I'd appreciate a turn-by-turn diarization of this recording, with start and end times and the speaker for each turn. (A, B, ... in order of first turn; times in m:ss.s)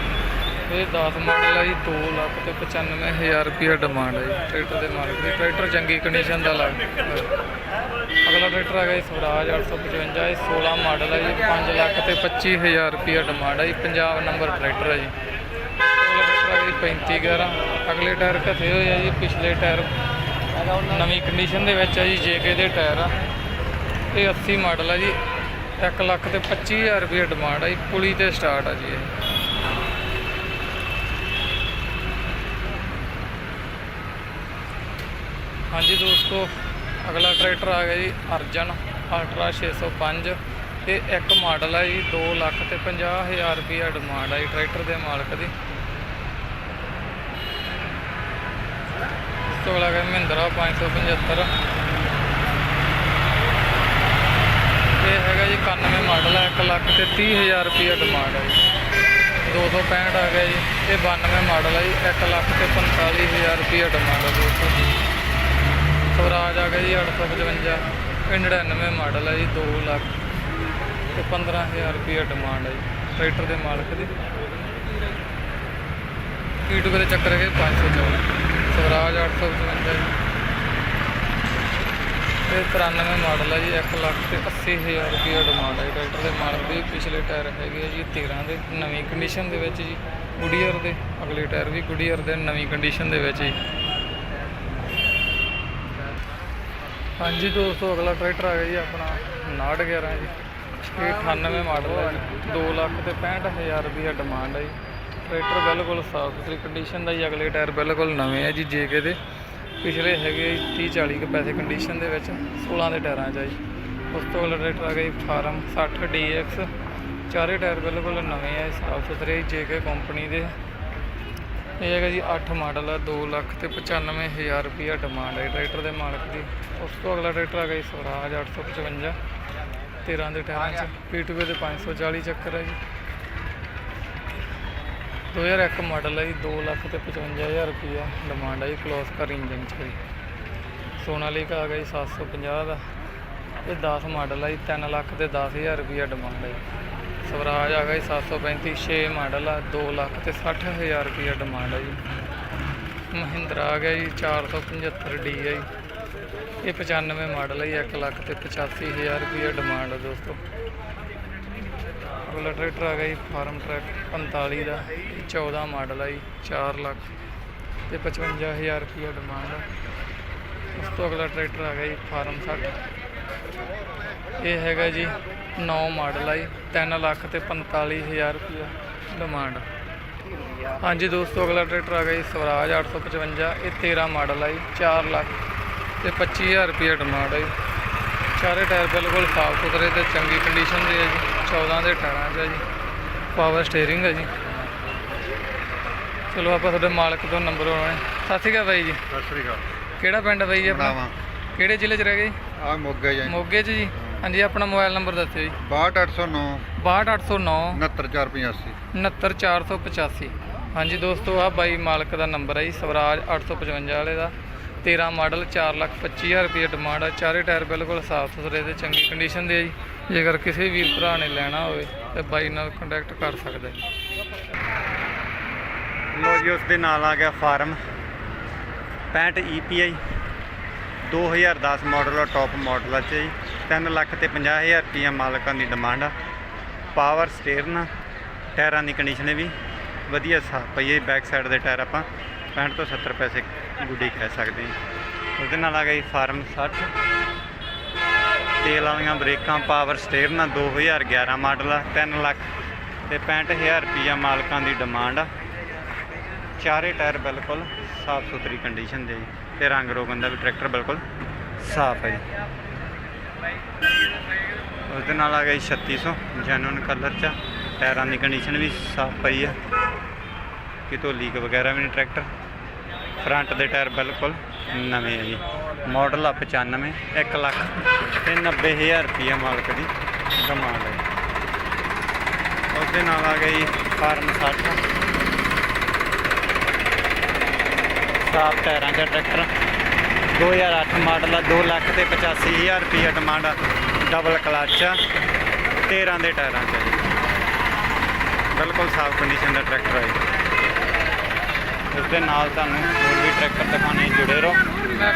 0:00.7-0:07.3 A
0:08.2-0:15.1 A
0:15.8-0:19.9 A
0:20.8-0:23.1 A
0:24.1-0:25.2 A
0:25.8-0:29.1 A
0:35.7-0:45.5 A
0:49.5-0:51.5 A
0:55.0-0:58.6 A
0:59.4-1:04.8 A
1:06.1-1:10.1 A
1:11.1-1:14.1 A
1:16.6-1:20.1 A
1:22.5-1:33.6 A
1:37.2-1:49.2 A
1:49.8-1:53.6 A
1:54.1-1:56.7 A
1:57.3-2:00.6 A
2:01.8-2:09.2 A
2:10.0-2:12.8 A
2:15.3-2:20.0 A
2:21.0-2:22.8 A
2:23.6-2:26.6 A
2:27.2-2:32.0 A
2:33.1-2:35.6 A
2:36.6-2:40.4 A
2:42.2-2:47.1 A
2:47.9-2:49.7 A
2:50.7-2:52.8 A
2:54.4-2:59.6 A
3:00.8-3:05.3 A
3:06.0-3:07.5 A
3:08.3-3:12.6 A
3:13.3-3:14.3 A
3:16.3-3:19.0 A
3:19.1-3:19.6 B
3:20.0-3:21.0 A
3:20.6-3:21.1 B
3:21.5-3:22.4 A
3:22.6-3:23.4 B
3:23.2-3:25.6 A
3:25.6-3:26.6 B
3:26.7-3:27.8 A
3:27.8-3:28.8 B
3:28.9-3:43.8 A
3:46.1-3:47.8 C
3:49.1-3:50.0 C
3:51.0-3:56.1 C
3:56.9-3:57.9 C
3:58.6-3:59.5 C
4:00.1-4:04.7 C
4:05.4-4:06.9 C
4:08.6-4:12.4 C
4:13.1-4:15.3 C
4:16.6-4:21.0 C
4:21.6-4:22.2 C
4:24.9-4:29.6 C
4:30.9-4:32.3 C
4:33.2-4:41.0 C
4:42.7-4:44.8 C
4:48.2-4:49.5 C
4:50.3-4:55.0 C
4:55.8-4:57.0 C
4:58.5-5:00.2 C
5:01.9-5:05.0 C